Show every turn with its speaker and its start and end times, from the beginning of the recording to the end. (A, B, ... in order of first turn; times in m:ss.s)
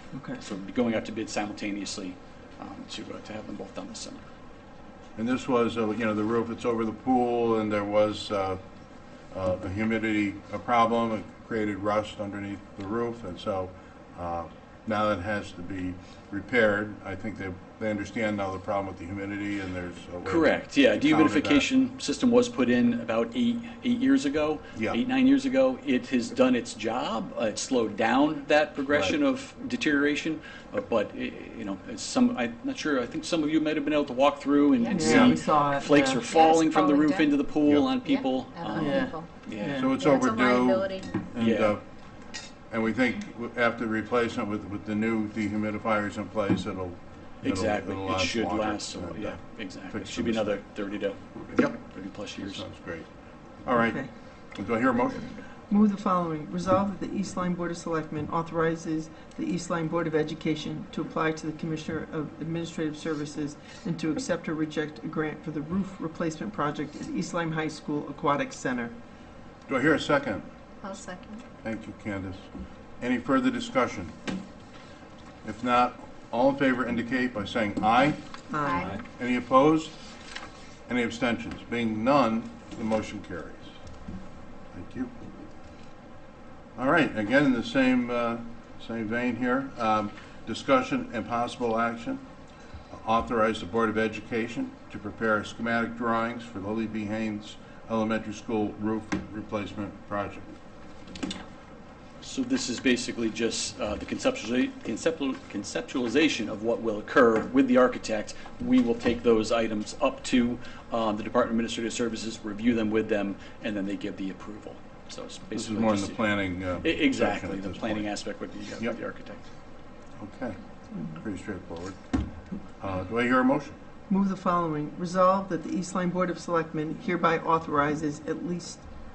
0:00.1-0:00.4 A
0:00.4-0:04.2 B
0:05.2-0:08.6 C
0:09.3-0:21.7 C
0:20.2-0:39.8 B
0:28.9-0:29.2 C
0:34.8-0:35.1 D
0:34.9-0:36.2 A
0:35.0-0:35.4 C
0:36.3-0:37.5 D
0:37.6-0:37.9 C
0:38.0-0:41.1 D
0:38.8-0:39.9 A
0:39.8-0:41.8 C
0:41.4-0:41.8 B
0:42.7-0:50.5 C
0:47.4-0:52.6 B
0:52.4-0:53.1 C
0:53.6-0:54.0 C
0:53.7-0:54.1 A
0:54.5-0:55.4 C
0:55.7-1:08.9 A
1:09.7-1:10.4 C
1:10.8-1:11.4 D
1:11.6-1:12.5 C
1:13.0-1:14.1 C
1:15.4-1:18.2 C
1:18.5-1:18.9 A
1:18.6-1:19.0 D
1:19.1-1:19.9 C
1:20.9-1:23.7 C
1:24.7-1:25.1 C
1:26.8-1:32.2 C
1:32.9-1:40.5 C
1:42.2-1:59.4 B
1:55.5-1:58.1 C
2:00.2-2:00.6 C
2:01.1-2:02.0 C
2:02.8-2:03.8 C
2:04.1-2:08.8 A